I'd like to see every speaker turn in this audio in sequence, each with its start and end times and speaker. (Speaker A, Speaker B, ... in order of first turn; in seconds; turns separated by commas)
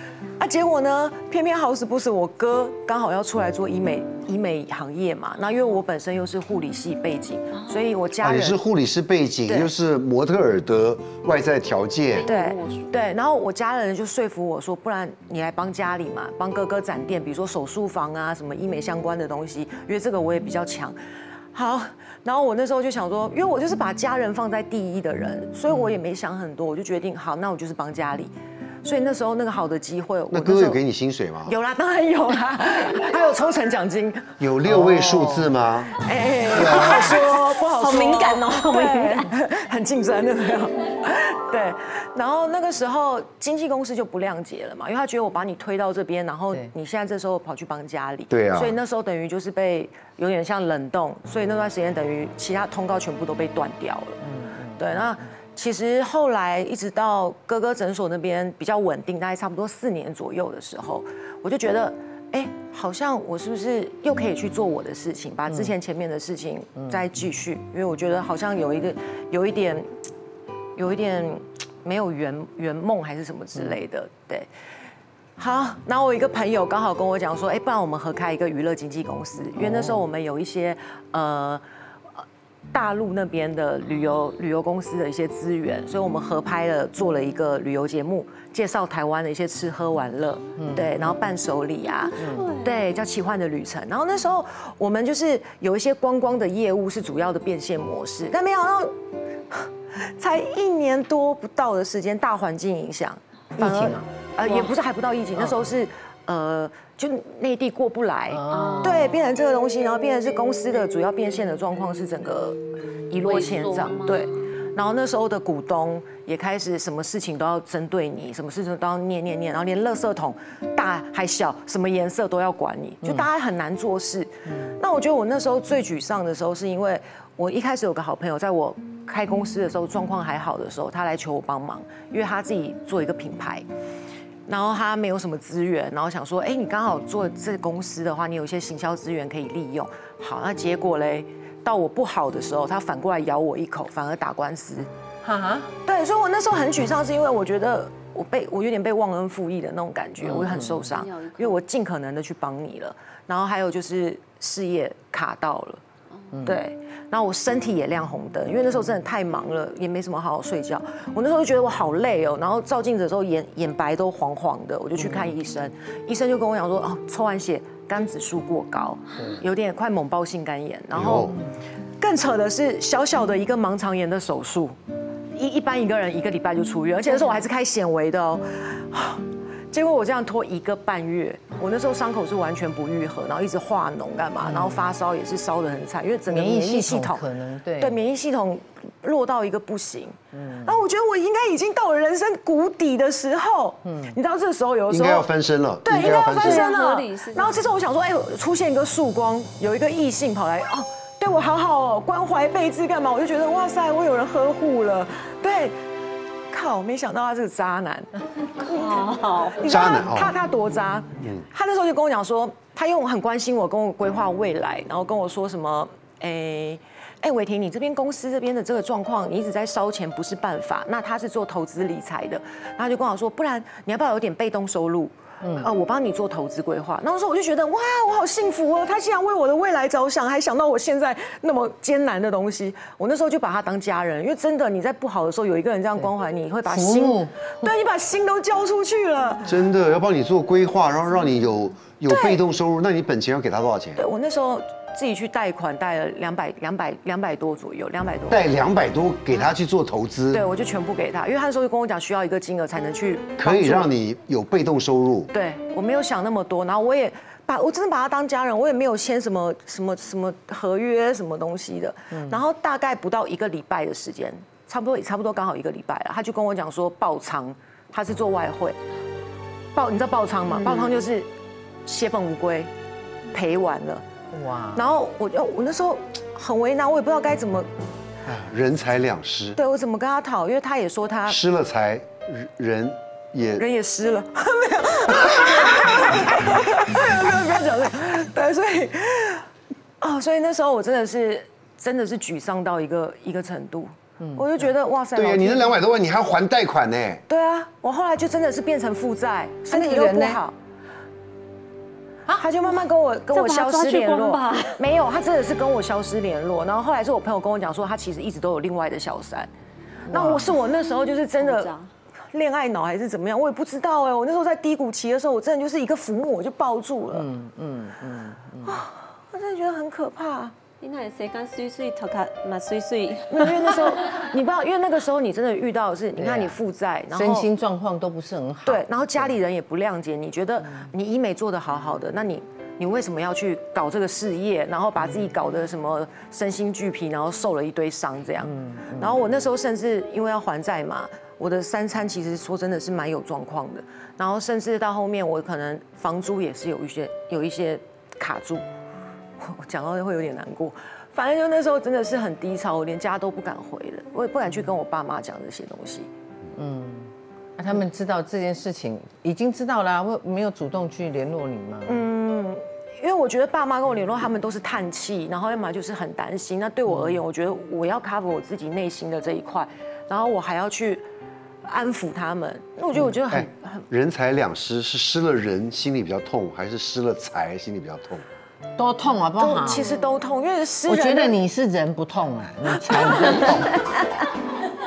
Speaker A: 0.4-8.6, Speaker B: 8.2-12.3, Speaker A: 9.5-9.7, Speaker C: 12.1-13.0, Speaker A: 12.2-21.0, Speaker A: 21.5-28.3, Speaker D: 25.7-26.0, Speaker A: 28.8-30.8, Speaker B: 30.3-31.6, Speaker A: 31.4-34.4, Speaker B: 34.4-36.0, Speaker D: 34.7-35.5, Speaker A: 36.0-54.3, Speaker B: 36.5-37.2, Speaker C: 37.7-39.3, Speaker B: 48.3-48.8, Speaker D: 54.2-55.2, Speaker A: 54.8-69.9, Speaker A: 70.8-74.5, Speaker A: 75.4-81.6, Speaker A: 82.2-98.9, Speaker D: 90.6-91.2, Speaker C: 91.9-92.9, Speaker D: 92.2-92.5, Speaker A: 99.5-112.6, Speaker D: 103.6-104.1, Speaker C: 104.4-104.7, Speaker D: 108.3-109.0, Speaker C: 108.5-109.3, Speaker A: 113.1-133.7, Speaker C: 113.1-114.5, Speaker D: 123.0-123.3, Speaker D: 124.5-124.8, Speaker A: 134.5-144.9, Speaker D: 145.2-145.7, Speaker A: 145.8-155.8, Speaker D: 150.2-150.8, Speaker C: 150.5-151.6, Speaker C: 156.1-156.5, Speaker A: 156.4-171.3, Speaker D: 165.0-165.3, Speaker B: 170.9-171.4, Speaker A: 172.0-174.8, Speaker A: 175.3-195.3, Speaker D: 184.4-184.9, Speaker D: 186.3-188.0, Speaker D: 190.3-190.8, Speaker D: 193.8-194.2, Speaker B: 194.9-196.7, Speaker A: 195.8-205.8, Speaker C: 196.4-197.7, Speaker A: 206.5-239.6, Speaker C: 208.8-209.6, Speaker B: 209.6-210.3, Speaker D: 225.4-225.7, Speaker D: 236.7-237.5, Speaker B: 239.5-244.0, Speaker A: 242.1-242.4, Speaker A: 244.0-248.4, Speaker B: 248.3-250.4, Speaker A: 250.3-253.9, Speaker B: 253.4-255.3, Speaker A: 255.3-268.8, Speaker D: 262.1-262.4, Speaker A: 269.8-271.3, Speaker A: 271.9-272.7, Speaker A: 273.3-274.1, Speaker D: 274.3-274.9, Speaker A: 274.7-277.7, Speaker B: 278.3-279.6, Speaker A: 279.6-281.4, Speaker B: 281.3-283.6, Speaker A: 283.6-289.5, Speaker A: 290.0-295.8, Speaker D: 294.2-294.5, Speaker B: 295.1-297.2, Speaker A: 297.3-300.5, Speaker D: 299.7-300.4, Speaker A: 302.4-309.5, Speaker C: 303.3-304.8, Speaker D: 310.1-310.6, Speaker A: 310.1-311.8, Speaker C: 311.4-311.9, Speaker A: 312.3-317.3, Speaker D: 317.1-318.8, Speaker A: 318.6-320.6, Speaker C: 320.8-323.8, Speaker A: 323.3-327.5, Speaker D: 326.1-326.6, Speaker D: 327.1-329.4, Speaker A: 328.6-348.6, Speaker D: 330.6-330.9, Speaker D: 335.0-335.3, Speaker D: 338.4-339.2, Speaker A: 349.4-356.1, Speaker D: 356.6-362.1, Speaker A: 361.9-371.0, Speaker D: 366.9-367.2, Speaker A: 371.6-373.9, Speaker B: 373.3-378.2, Speaker D: 378.8-379.9, Speaker A: 379.4-381.4, Speaker D: 380.9-384.0, Speaker A: 382.8-383.6